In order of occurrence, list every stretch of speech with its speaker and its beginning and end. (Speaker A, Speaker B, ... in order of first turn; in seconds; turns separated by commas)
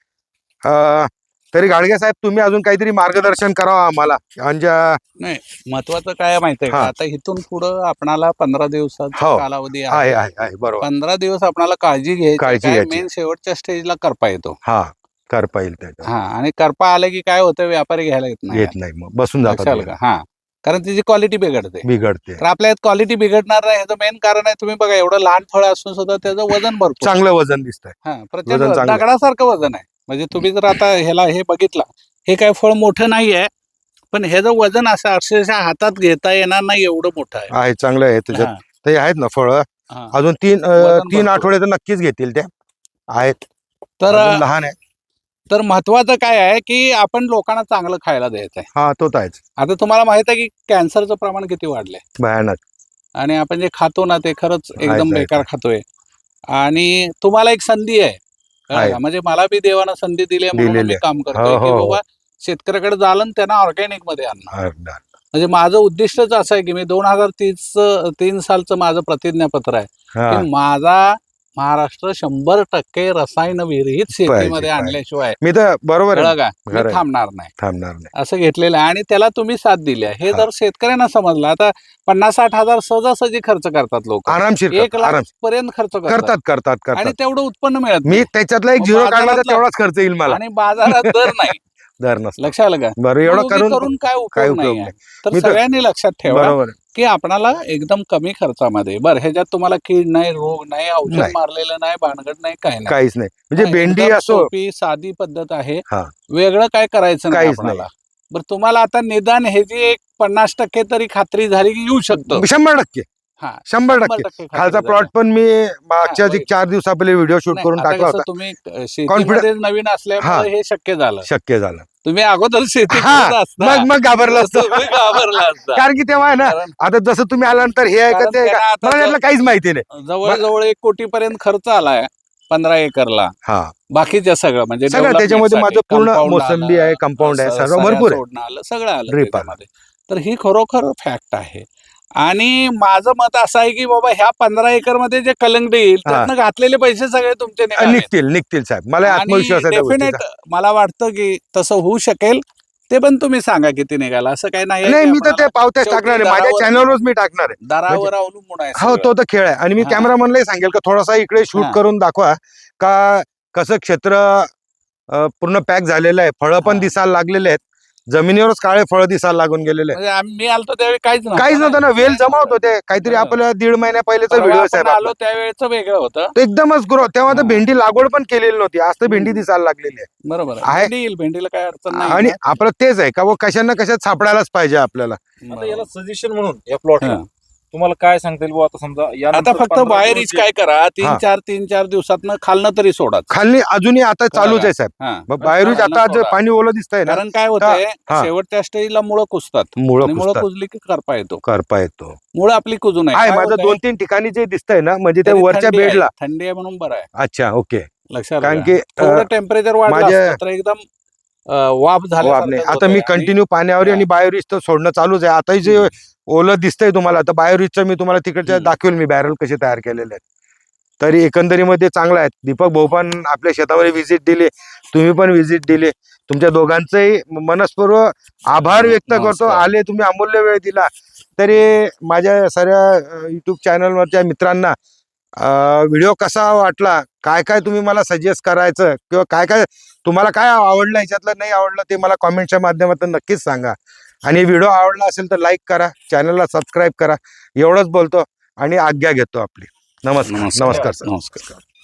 Speaker A: 0.6-5.0, Speaker B: 5.2-10.2, Speaker A: 9.1-10.8, Speaker B: 10.8-14.6, Speaker A: 12.4-13.0, Speaker A: 14.6-16.1, Speaker B: 16.0-18.7, Speaker A: 18.5-19.9, Speaker B: 19.4-21.8, Speaker A: 21.8-22.4, Speaker B: 22.4-27.2, Speaker A: 27.0-27.9, Speaker B: 28.0-33.5, Speaker A: 28.4-29.0, Speaker B: 34.1-37.5, Speaker A: 37.5-42.5, Speaker B: 38.3-38.6, Speaker B: 40.8-41.5, Speaker A: 43.1-43.4, Speaker B: 44.0-44.4, Speaker A: 44.1-44.8, Speaker B: 45.5-48.7, Speaker A: 48.8-49.4, Speaker B: 49.6-52.0, Speaker A: 52.2-52.6, Speaker B: 53.2-55.8, Speaker A: 54.8-55.4, Speaker B: 56.5-58.2, Speaker B: 58.7-64.5, Speaker A: 60.6-62.0, Speaker A: 64.5-65.0, Speaker B: 65.3-75.4, Speaker A: 70.2-70.4, Speaker A: 74.3-77.0, Speaker B: 76.2-77.5, Speaker A: 77.6-78.1, Speaker B: 78.1-86.3, Speaker A: 84.3-85.3, Speaker A: 86.1-87.1, Speaker B: 86.9-88.3, Speaker A: 88.1-90.4, Speaker B: 88.8-89.6, Speaker B: 90.3-91.6, Speaker A: 91.0-95.6, Speaker B: 92.4-103.0, Speaker A: 96.3-96.7, Speaker A: 102.9-104.5, Speaker B: 103.6-112.4, Speaker A: 107.3-107.8, Speaker A: 112.2-113.0, Speaker B: 113.4-115.1, Speaker A: 113.7-118.2, Speaker B: 116.0-116.5, Speaker B: 117.5-121.3, Speaker A: 119.1-119.5, Speaker A: 120.2-120.5, Speaker A: 121.2-121.9, Speaker B: 122.0-126.7, Speaker A: 122.9-130.4, Speaker B: 128.1-129.2, Speaker B: 129.9-133.3, Speaker A: 133.4-133.7, Speaker B: 133.9-141.6, Speaker A: 134.9-138.2, Speaker A: 139.1-139.5, Speaker B: 142.2-148.1, Speaker A: 147.8-150.2, Speaker B: 149.0-156.9, Speaker A: 154.8-158.1, Speaker B: 157.6-159.1, Speaker A: 158.8-164.5, Speaker B: 159.8-160.1, Speaker A: 165.1-170.0, Speaker B: 166.6-166.9, Speaker B: 169.9-173.4, Speaker A: 171.3-175.1, Speaker B: 174.3-176.3, Speaker A: 176.3-180.1, Speaker B: 177.3-177.6, Speaker B: 179.1-179.4, Speaker B: 180.3-182.4, Speaker A: 180.6-180.9, Speaker A: 181.9-185.2, Speaker B: 185.4-185.9, Speaker C: 185.5-187.2, Speaker C: 187.7-190.4, Speaker B: 189.3-193.3, Speaker A: 193.3-198.3, Speaker B: 194.3-196.4, Speaker B: 197.1-201.4, Speaker A: 199.8-200.4, Speaker A: 201.4-202.2, Speaker B: 202.3-203.8, Speaker A: 203.1-206.1, Speaker B: 205.2-207.1, Speaker A: 207.2-207.9, Speaker B: 208.1-210.8, Speaker A: 208.4-209.2, Speaker A: 209.9-210.4, Speaker B: 211.5-214.1, Speaker A: 212.2-220.2, Speaker B: 218.4-218.8, Speaker A: 221.0-234.8, Speaker B: 228.6-229.7, Speaker A: 235.4-251.1, Speaker B: 250.3-251.6